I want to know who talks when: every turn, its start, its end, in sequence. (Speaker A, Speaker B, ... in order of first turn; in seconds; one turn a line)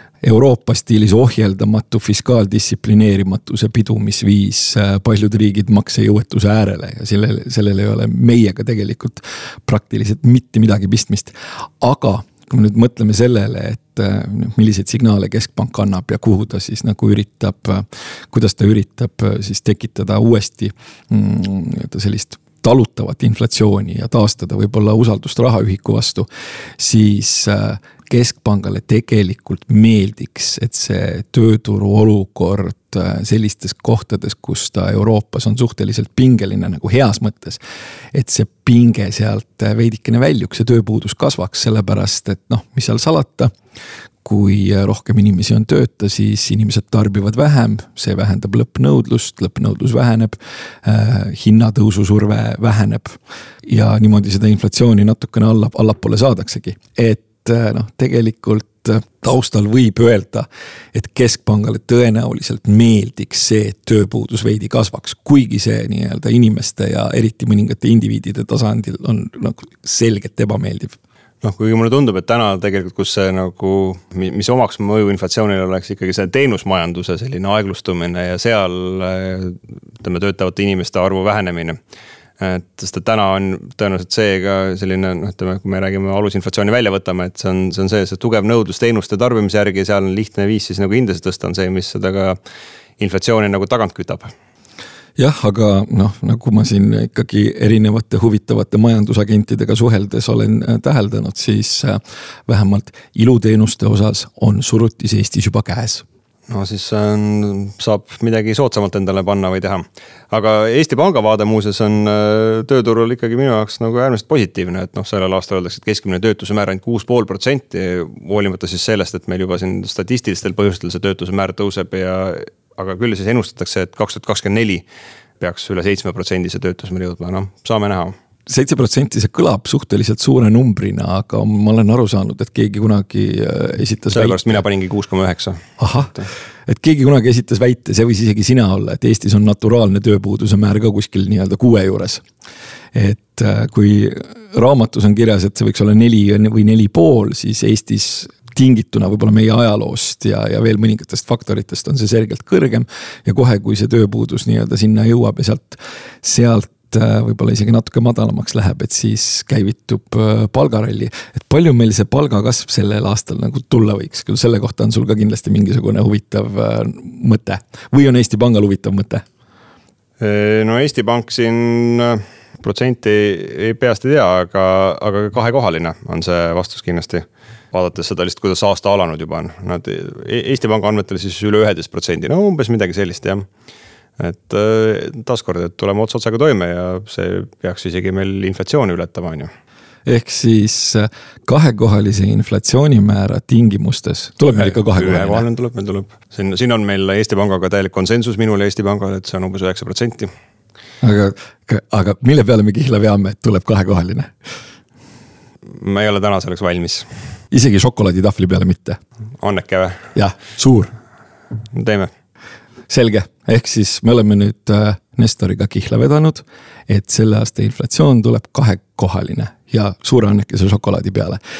Speaker A: 0.2-26.3
Speaker A: 26.8-37.6
Speaker A: 38.1-43.5
Speaker A: 44.2-71.0
Speaker B: 71.4-81.8
Speaker B: 82.4-92.4
Speaker B: 93.0-94.3
Speaker A: 95.2-106.0
Speaker B: 106.5-124.8
Speaker B: 125.4-128.1
Speaker A: 128.5-134.6
Speaker B: 134.1-136.3
Speaker A: 135.8-142.2
Speaker A: 142.9-169.2
Speaker B: 170.2-183.5
Speaker B: 184.2-189.5
Speaker A: 190.1-195.4
Speaker B: 194.5-200.3
Speaker A: 201.0-204.3
Speaker B: 205.7-207.1
Speaker A: 207.5-209.0
Speaker B: 209.4-210.1
Speaker A: 210.1-210.9
Speaker B: 211.7-212.1
Speaker A: 212.9-221.4